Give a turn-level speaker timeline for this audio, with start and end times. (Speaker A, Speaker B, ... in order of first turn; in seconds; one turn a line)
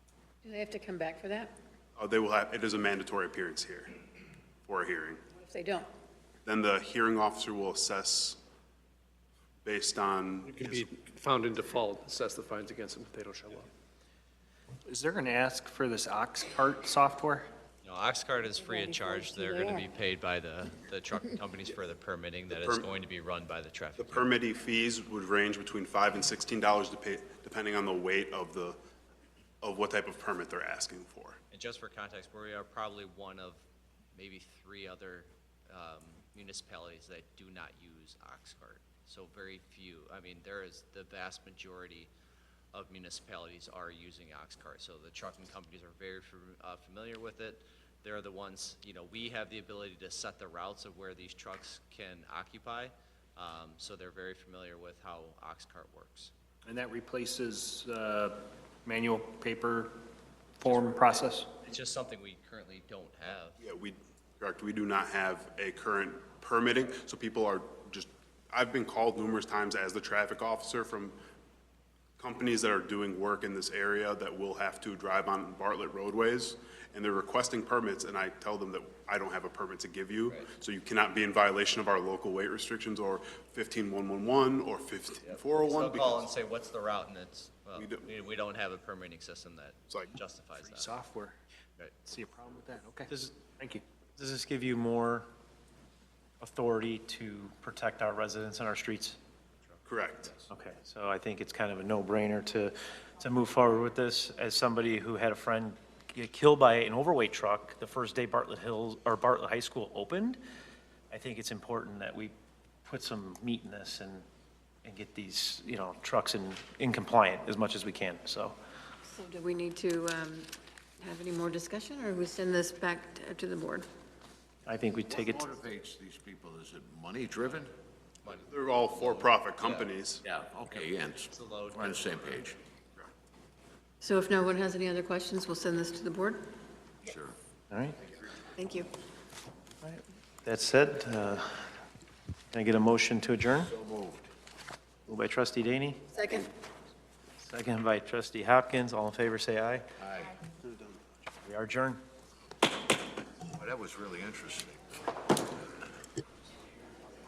Speaker A: 0.4-1.5
Speaker B: 2.0-3.9
Speaker B: 4.7-5.2
Speaker A: 5.4-5.9
Speaker B: 6.5-8.4
Speaker B: 9.7-10.9
Speaker C: 10.4-13.7
Speaker D: 14.9-17.5
Speaker E: 17.8-24.4
Speaker A: 19.1-19.7
Speaker B: 22.5-22.9
Speaker B: 24.0-28.8
Speaker B: 29.6-31.4
Speaker E: 31.5-33.6
Speaker E: 34.1-42.1
Speaker E: 42.7-56.3
Speaker D: 56.6-60.0
Speaker D: 60.6-61.5
Speaker E: 60.6-63.6
Speaker B: 63.6-71.2
Speaker B: 72.2-86.3
Speaker E: 85.2-91.0
Speaker B: 87.8-88.1
Speaker D: 90.6-91.4
Speaker D: 92.0-93.8
Speaker F: 93.1-93.4
Speaker F: 94.2-95.3
Speaker F: 96.4-99.2
Speaker B: 99.9-100.3
Speaker F: 100.5-110.4
Speaker F: 111.1-112.3
Speaker F: 112.8-114.2
Speaker F: 114.8-118.6
Speaker A: 119.0-123.9
Speaker F: 124.7-125.5
Speaker G: 125.2-127.7
Speaker E: 128.2-129.9
Speaker B: 128.3-130.2
Speaker G: 130.2-132.6
Speaker E: 130.6-132.4
Speaker A: 134.0-136.4
Speaker G: 137.1-137.4
Speaker F: 137.7-138.0
Speaker A: 138.6-138.9
Speaker F: 139.8-141.7
Speaker F: 142.5-143.7
Speaker G: 143.7-144.3
Speaker F: 145.1-146.1
Speaker A: 146.2-146.5
Speaker F: 147.4-149.9
Speaker G: 150.0-150.4
Speaker F: 151.4-152.0
Speaker G: 153.5-154.8